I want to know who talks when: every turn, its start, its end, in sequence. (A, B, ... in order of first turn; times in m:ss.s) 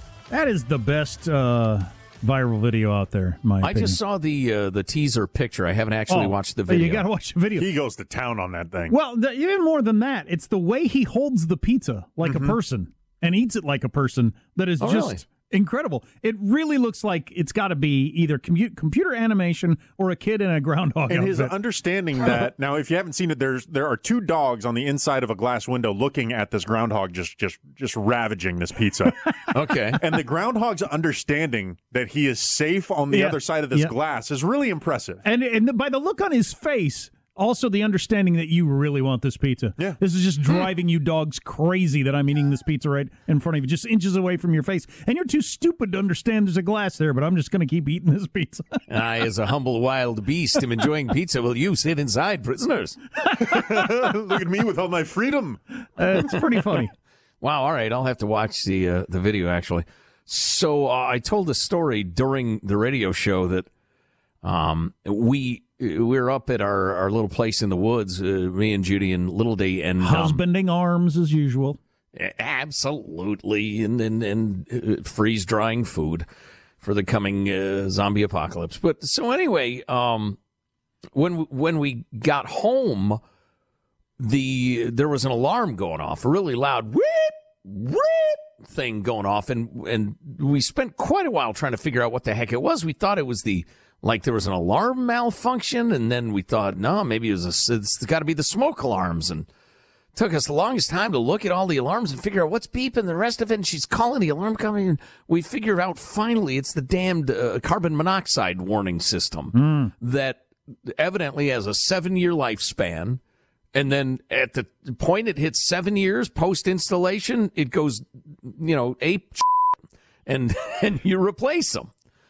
0:00.3-0:04.0 A
0:03.6-0:07.1 B
0:06.1-0:07.7 A
0:07.6-0:09.0 C
0:08.9-0:21.6 A
0:12.2-0:12.6 C
0:14.8-0:15.2 B
0:21.1-0:29.3 C
0:29.5-0:30.0 B
0:30.0-0:35.2 C
0:33.1-0:33.9 A
0:35.2-0:48.8 A
0:48.9-0:53.0 B
0:53.4-0:55.6 C
0:56.0-0:56.9 A
0:57.4-1:03.7 B
1:04.4-1:10.4 B
1:10.0-1:11.8 A
1:12.1-1:16.3 B
1:16.8-1:20.4 B
1:21.1-1:23.2 B
1:24.2-1:39.5 B
1:40.2-1:53.2 B
1:49.5-1:49.9 A
1:53.7-2:01.9 B